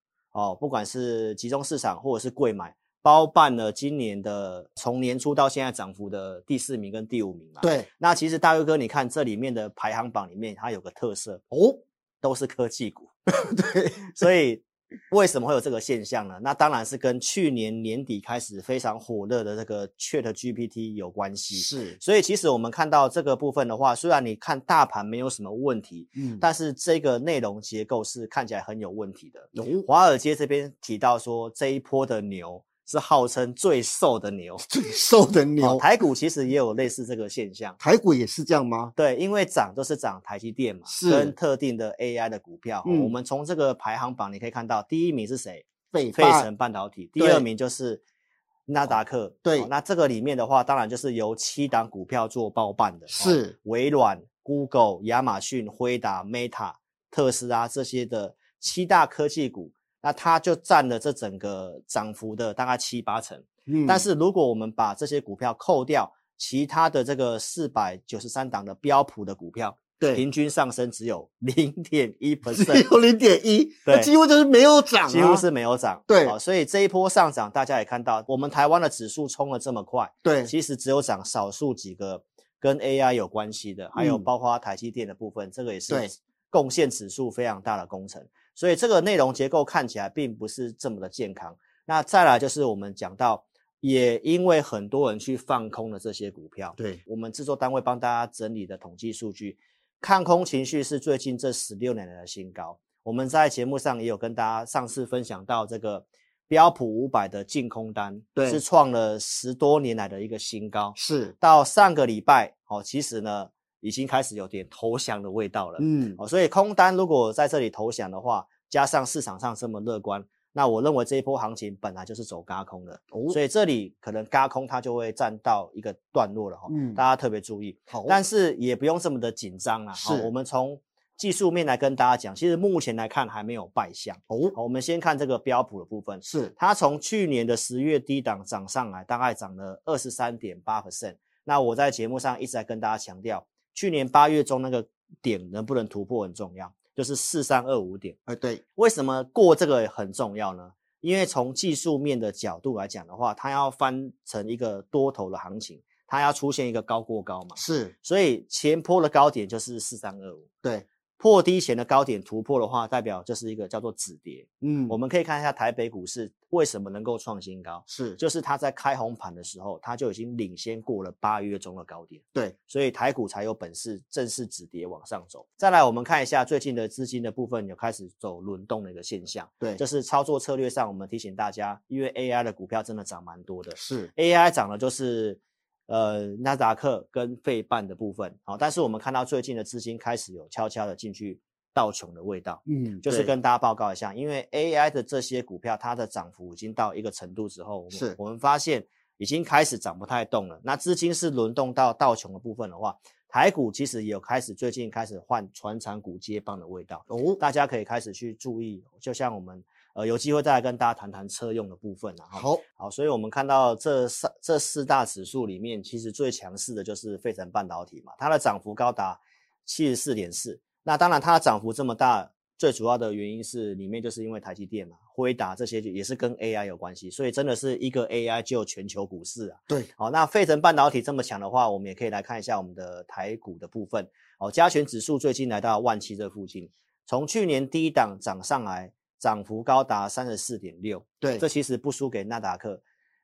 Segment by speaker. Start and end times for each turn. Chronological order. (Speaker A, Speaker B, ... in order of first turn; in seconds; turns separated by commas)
Speaker A: 0.3-11.4, Speaker B: 7.6-7.9, Speaker B: 11.5-11.8, Speaker A: 12.2-13.1, Speaker B: 13.4-14.1, Speaker A: 13.9-34.6, Speaker B: 21.5-22.0, Speaker B: 26.1-26.4, Speaker B: 29.5-29.9, Speaker B: 34.6-35.8, Speaker A: 35.6-37.8, Speaker B: 37.8-38.9, Speaker A: 39.0-48.0, Speaker B: 40.9-41.3, Speaker B: 42.8-43.1, Speaker B: 45.9-46.5, Speaker B: 47.2-47.5, Speaker A: 48.7-72.9, Speaker B: 48.9-49.7, Speaker B: 53.1-53.5, Speaker B: 63.7-64.1, Speaker B: 72.5-75.4, Speaker A: 73.8-74.1, Speaker A: 75.0-148.2, Speaker B: 76.1-76.3, Speaker B: 80.2-80.5, Speaker B: 84.0-84.2, Speaker B: 108.3-108.6, Speaker B: 111.0-111.3, Speaker B: 115.8-116.2, Speaker B: 123.1-123.4, Speaker B: 126.7-127.0, Speaker B: 127.9-128.2, Speaker B: 130.0-130.3, Speaker B: 134.3-134.6, Speaker B: 136.2-136.5, Speaker B: 148.3-148.6, Speaker A: 148.8-160.5, Speaker B: 157.6-157.9, Speaker A: 161.2-242.8, Speaker B: 164.6-164.9, Speaker B: 167.9-168.2, Speaker B: 183.7-184.1, Speaker B: 192.7-193.3, Speaker B: 197.9-198.2, Speaker B: 207.1-207.4, Speaker B: 212.3-212.6